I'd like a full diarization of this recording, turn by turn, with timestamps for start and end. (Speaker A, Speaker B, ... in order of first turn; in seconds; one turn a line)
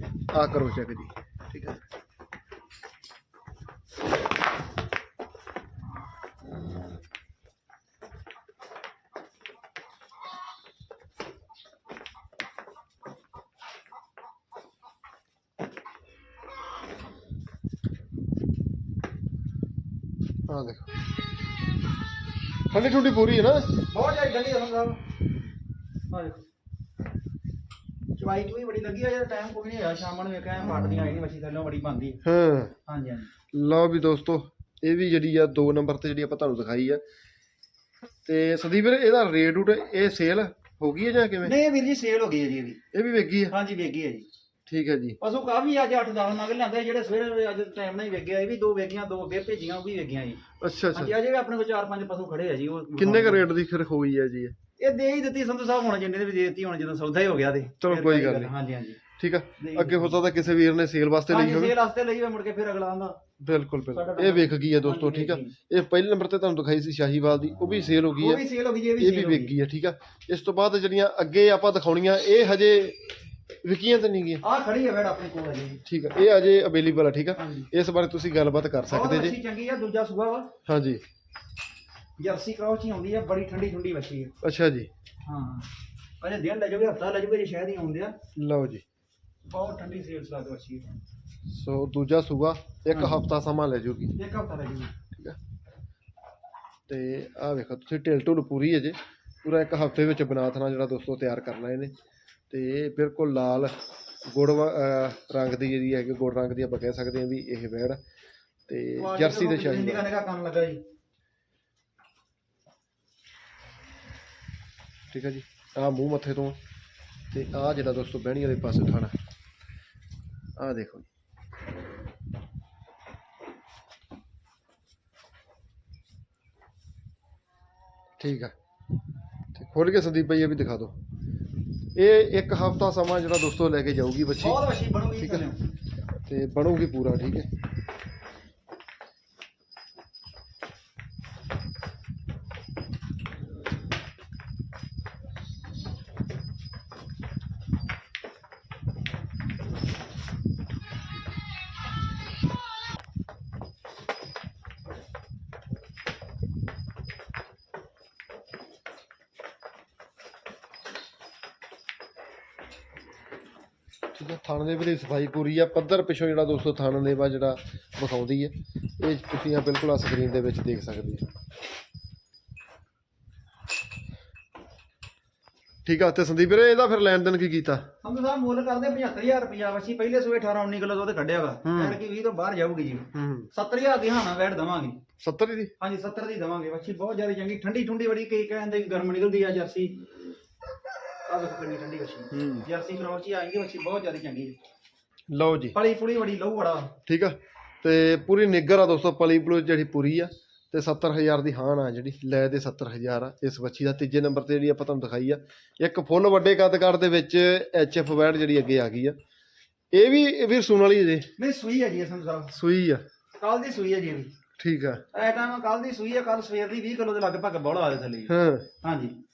Speaker A: 0.3-1.8
Speaker A: 20.5-20.9
Speaker A: 22.7-23.8
Speaker B: 23.9-25.0
Speaker B: 26.1-26.4
Speaker B: 28.2-32.2
Speaker A: 32.2-32.7
Speaker B: 32.9-33.3
Speaker A: 33.5-37.0
Speaker A: 38.2-41.5
Speaker B: 41.4-42.8
Speaker A: 42.9-43.5
Speaker B: 43.5-44.3
Speaker A: 44.7-45.2
Speaker B: 45.2-50.4
Speaker A: 50.6-51.2
Speaker B: 50.9-53.5
Speaker A: 53.0-54.5
Speaker B: 54.8-59.0
Speaker A: 57.8-58.5
Speaker A: 59.2-61.7
Speaker B: 59.6-60.2
Speaker B: 61.3-63.2
Speaker A: 63.4-68.4
Speaker B: 63.9-65.5
Speaker B: 68.2-69.5
Speaker A: 69.0-74.4
Speaker B: 74.4-75.8
Speaker A: 75.8-79.3
Speaker B: 77.4-77.7
Speaker B: 78.9-80.5
Speaker A: 80.7-81.0
Speaker B: 82.2-84.3
Speaker A: 84.4-84.9
Speaker B: 85.2-85.7
Speaker B: 86.2-88.2
Speaker A: 88.3-88.8
Speaker B: 89.5-90.8
Speaker A: 91.5-94.2
Speaker B: 92.9-93.2
Speaker B: 94.2-94.9
Speaker A: 95.1-95.4
Speaker A: 96.9-101.9
Speaker A: 102.5-103.7
Speaker A: 104.3-108.0
Speaker A: 108.7-110.1
Speaker B: 109.0-110.8
Speaker A: 115.1-116.6
Speaker A: 117.3-119.1
Speaker A: 120.6-121.1
Speaker A: 128.2-128.5
Speaker A: 129.5-131.0
Speaker A: 131.9-134.6
Speaker B: 134.4-135.6
Speaker A: 136.2-137.5
Speaker A: 164.1-171.2
Speaker A: 175.8-177.8
Speaker B: 178.0-185.0
Speaker A: 181.6-182.0
Speaker A: 183.1-183.5
Speaker A: 185.2-185.7
Speaker B: 185.8-190.1
Speaker B: 191.2-194.6
Speaker A: 192.3-192.7
Speaker A: 195.3-195.8
Speaker B: 195.7-196.9
Speaker A: 197.1-209.2
Speaker A: 209.9-211.3
Speaker B: 211.4-212.5
Speaker A: 212.5-213.0
Speaker B: 213.4-214.3
Speaker A: 214.6-215.0
Speaker B: 215.1-219.2
Speaker A: 218.3-218.7